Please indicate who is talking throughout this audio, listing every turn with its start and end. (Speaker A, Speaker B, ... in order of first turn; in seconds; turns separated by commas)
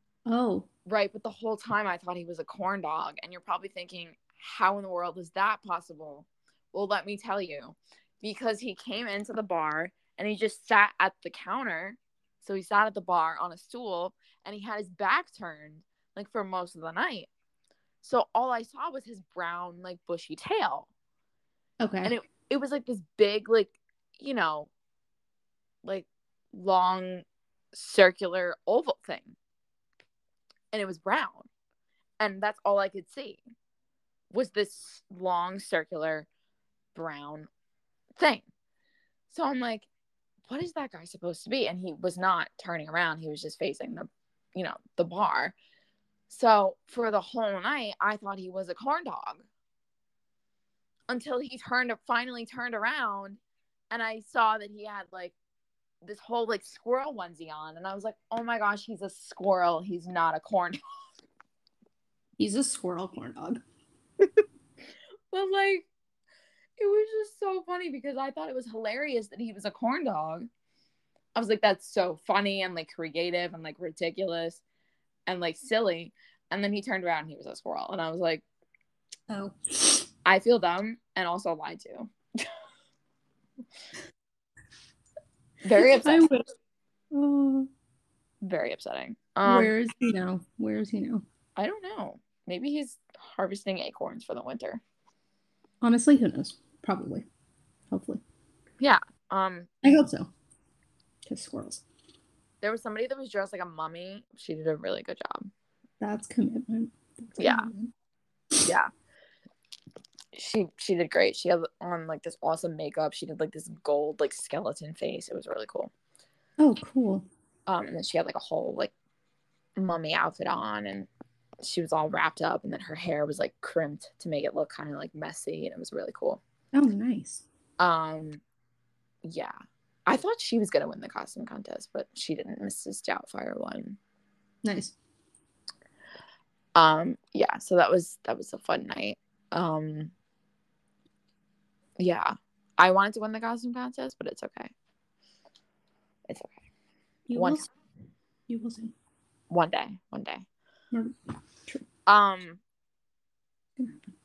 Speaker A: 0.3-0.7, Speaker B: 0.9-17.3, Speaker B: 18.0-20.9, Speaker A: 21.8-22.1, Speaker B: 22.0-24.7, Speaker B: 25.8-29.3, Speaker B: 30.7-31.5, Speaker B: 32.2-33.4, Speaker B: 34.3-36.3, Speaker B: 36.9-37.5, Speaker B: 38.2-38.5, Speaker B: 39.3-39.9, Speaker B: 40.5-45.5, Speaker B: 46.3-49.5, Speaker B: 51.1-53.4, Speaker B: 53.9-55.3, Speaker B: 56.0-60.8, Speaker A: 62.4-63.6, Speaker B: 65.3-65.9, Speaker B: 66.8-70.5, Speaker B: 71.3-74.6, Speaker B: 75.3-78.4, Speaker A: 79.3-80.0, Speaker B: 80.2-82.1, Speaker B: 85.6-86.3, Speaker A: 85.8-86.4, Speaker A: 87.1-87.7, Speaker B: 88.4-89.7, Speaker A: 89.4-91.2, Speaker B: 91.6-94.8, Speaker A: 95.8-97.2, Speaker A: 97.9-98.2, Speaker B: 98.8-99.9, Speaker A: 99.8-100.3, Speaker A: 101.3-101.8, Speaker B: 102.6-105.5, Speaker A: 106.0-107.9, Speaker B: 107.4-107.7, Speaker B: 108.6-108.9, Speaker B: 110.3-115.9, Speaker A: 116.6-117.2, Speaker B: 117.7-118.9, Speaker B: 119.8-121.1, Speaker B: 121.6-126.4, Speaker A: 126.7-127.5, Speaker B: 127.8-128.4, Speaker B: 129.2-129.5, Speaker B: 130.1-134.0, Speaker A: 134.6-134.9, Speaker B: 136.7-140.1, Speaker B: 142.0-144.7, Speaker B: 146.3-146.6, Speaker A: 147.3-147.7, Speaker B: 147.3-147.6, Speaker A: 148.5-148.9, Speaker B: 149.5-150.4, Speaker B: 152.1-152.6, Speaker A: 153.8-154.1